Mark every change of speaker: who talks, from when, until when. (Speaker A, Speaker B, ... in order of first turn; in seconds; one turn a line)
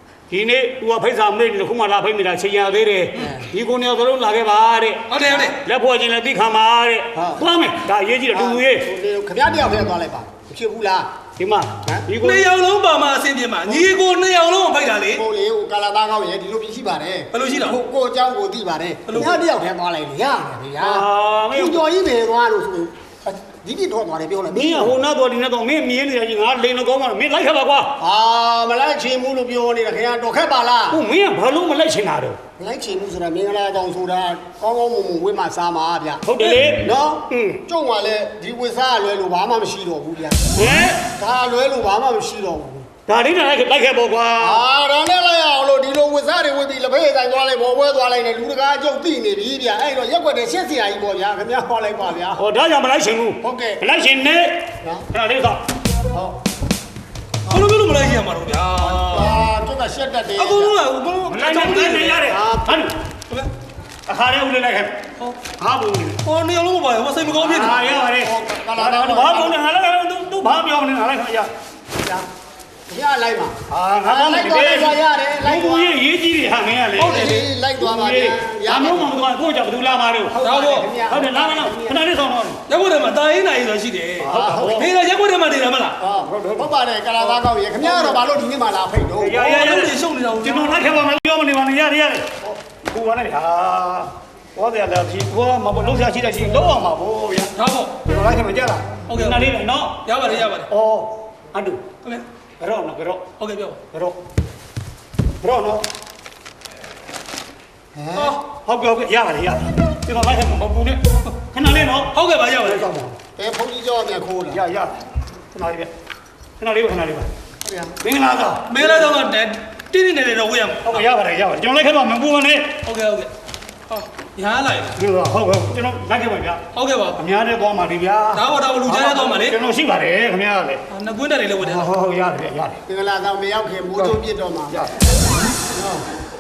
Speaker A: 0.3-8.9
Speaker B: 3.2-3.5
Speaker C: 5.1-5.6
Speaker B: 7.1-7.4
Speaker B: 8.3-11.1
Speaker A: 11.4-12.5
Speaker C: 12.2-15.2
Speaker B: 15.1-25.0
Speaker C: 17.3-17.8
Speaker C: 19.1-19.4
Speaker A: 20.8-21.9
Speaker A: 24.5-27.9
Speaker B: 28.0-31.0
Speaker A: 30.9-32.4
Speaker B: 32.6-40.5
Speaker A: 36.2-37.6
Speaker A: 40.5-41.0
Speaker B: 41.1-42.9
Speaker A: 43.1-44.6
Speaker B: 44.4-52.4
Speaker A: 52.4-55.6
Speaker B: 53.4-53.8
Speaker B: 56.1-56.4
Speaker C: 57.5-59.4
Speaker B: 58.8-60.7
Speaker C: 60.4-62.2
Speaker A: 61.3-63.0
Speaker B: 62.3-62.8
Speaker A: 64.1-66.2
Speaker C: 66.2-67.8
Speaker B: 67.4-69.5
Speaker A: 67.4-71.5
Speaker B: 72.9-75.9
Speaker A: 73.7-80.4
Speaker C: 77.0-77.4
Speaker B: 77.0-79.2
Speaker B: 80.3-82.0
Speaker C: 80.4-80.9
Speaker A: 81.0-82.6
Speaker C: 82.7-86.0
Speaker A: 84.2-84.9
Speaker B: 84.3-84.8
Speaker B: 86.0-89.5
Speaker A: 86.1-86.7
Speaker A: 87.8-88.2
Speaker A: 89.2-101.8
Speaker C: 89.3-90.9
Speaker C: 97.5-98.0
Speaker C: 99.1-99.5
Speaker C: 100.0-100.7
Speaker A: 102.6-103.3
Speaker C: 103.4-103.8
Speaker A: 103.9-104.2
Speaker A: 105.4-105.8
Speaker B: 107.9-108.4
Speaker C: 108.1-108.4
Speaker A: 108.5-113.2
Speaker C: 112.1-112.9
Speaker B: 113.3-114.6
Speaker A: 114.5-114.9
Speaker A: 115.5-115.9
Speaker A: 116.6-117.3
Speaker B: 117.6-117.9
Speaker A: 118.0-119.1
Speaker C: 118.7-121.0
Speaker A: 120.8-122.8
Speaker C: 122.8-123.3
Speaker C: 123.9-125.0
Speaker A: 125.0-126.6
Speaker C: 126.7-127.2
Speaker A: 127.2-130.8
Speaker C: 128.3-129.6
Speaker C: 130.9-131.9
Speaker A: 131.6-132.8
Speaker B: 132.8-134.8
Speaker B: 135.7-136.0